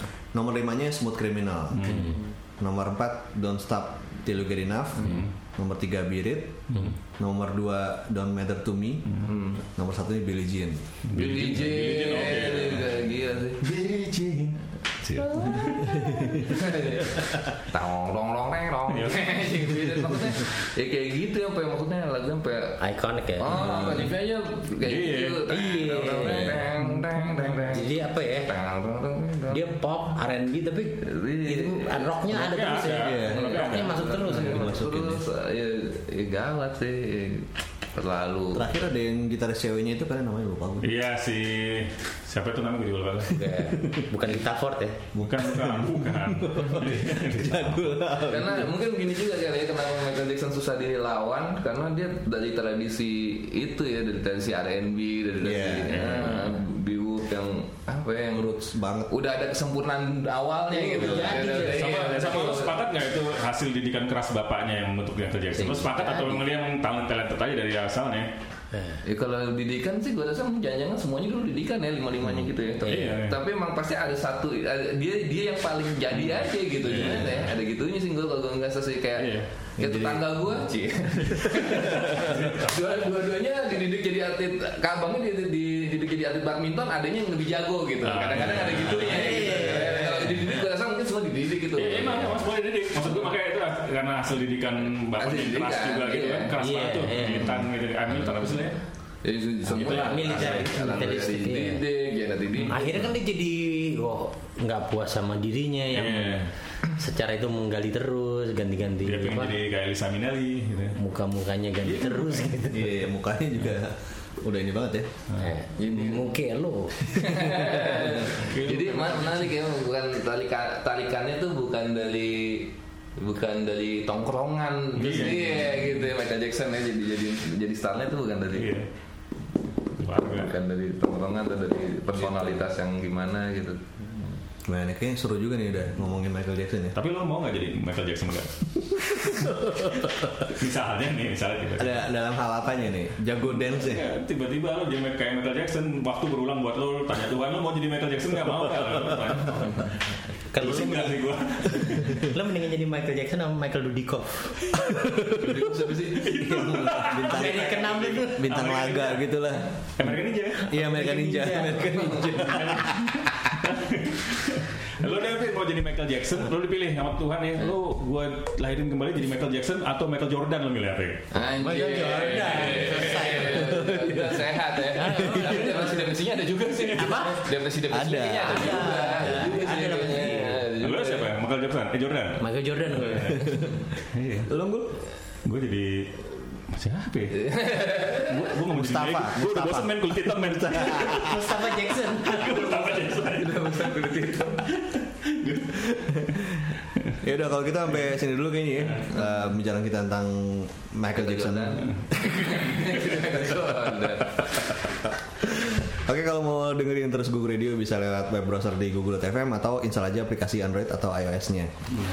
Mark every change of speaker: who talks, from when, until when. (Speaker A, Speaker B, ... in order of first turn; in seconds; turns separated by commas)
Speaker A: 0.3-1.9, Speaker B: 1.7-2.2, Speaker C: 1.8-2.2, Speaker A: 2.6-6.7, Speaker B: 5.0-5.3, Speaker B: 6.7-7.0, Speaker A: 7.2-10.8, Speaker D: 9.2-9.6, Speaker B: 11.1-13.0, Speaker D: 11.1-13.6, Speaker B: 13.6-16.4, Speaker D: 15.2-22.8, Speaker A: 15.8-16.5, Speaker B: 18.9-19.7, Speaker C: 22.8-23.9, Speaker D: 23.4-29.7, Speaker B: 23.4-24.1, Speaker B: 24.8-25.4, Speaker C: 25.5-27.1, Speaker A: 26.2-26.6, Speaker C: 27.6-28.5, Speaker C: 29.5-34.7, Speaker D: 31.0-32.2, Speaker B: 32.3-34.1, Speaker A: 32.9-33.5, Speaker D: 33.3-38.7, Speaker A: 34.4-35.2, Speaker A: 38.5-40.9, Speaker B: 40.8-43.4, Speaker C: 43.3-45.0, Speaker A: 43.8-44.0, Speaker A: 45.1-48.7, Speaker B: 45.2-48.1, Speaker D: 48.2-62.8, Speaker A: 55.4-56.1, Speaker B: 55.9-56.5, Speaker A: 58.3-59.1, Speaker C: 60.7-62.4, Speaker B: 61.7-68.3, Speaker C: 65.5-66.4, Speaker C: 68.7-69.0, Speaker D: 69.0-92.4, Speaker B: 72.8-73.3, Speaker C: 72.9-73.1, Speaker B: 76.8-77.4, Speaker B: 79.2-79.5, Speaker A: 79.8-80.6, Speaker A: 81.2-82.3, Speaker B: 81.8-82.9, Speaker B: 88.0-89.5, Speaker A: 89.1-90.3, Speaker C: 89.2-90.0, Speaker B: 91.8-98.8, Speaker D: 95.2-96.5, Speaker C: 96.6-97.7, Speaker D: 99.2-103.1, Speaker B: 99.7-100.6, Speaker C: 99.8-101.8, Speaker C: 102.6-109.6, Speaker B: 105.9-106.5, Speaker B: 109.0-111.0, Speaker C: 110.9-113.0, Speaker B: 111.8-112.6, Speaker A: 112.7-115.1, Speaker C: 115.3-118.0, Speaker D: 115.8-116.3, Speaker D: 117.1-128.8, Speaker B: 118.3-119.5, Speaker B: 125.0-125.9, Speaker B: 128.5-128.9, Speaker B: 130.0-130.5, Speaker D: 130.3-134.2, Speaker A: 134.6-137.0, Speaker B: 136.9-142.0, Speaker A: 139.2-139.8, Speaker A: 141.8-144.1, Speaker B: 143.5-149.9, Speaker C: 150.5-155.0, Speaker B: 150.6-152.2, Speaker D: 155.3-156.4, Speaker B: 156.2-160.7, Speaker A: 156.3-163.2, Speaker C: 157.2-158.4, Speaker C: 160.7-161.9, Speaker B: 162.3-171.3, Speaker D: 171.3-181.3, Speaker C: 171.5-173.9, Speaker A: 173.7-174.4, Speaker C: 174.9-176.0, Speaker C: 176.9-177.5, Speaker A: 177.9-179.5, Speaker C: 178.4-180.7, Speaker B: 180.8-183.5, Speaker C: 182.4-183.6, Speaker A: 183.3-183.8, Speaker B: 184.1-184.5, Speaker A: 184.5-184.9, Speaker B: 185.4-187.5, Speaker D: 187.3-188.5, Speaker B: 188.2-191.5, Speaker A: 188.7-191.4, Speaker C: 191.0-192.9, Speaker B: 192.1-194.0, Speaker D: 193.2-194.7, Speaker B: 194.6-197.1, Speaker A: 196.2-196.7, Speaker A: 197.2-201.8, Speaker D: 201.1-204.7, Speaker A: 205.4-211.7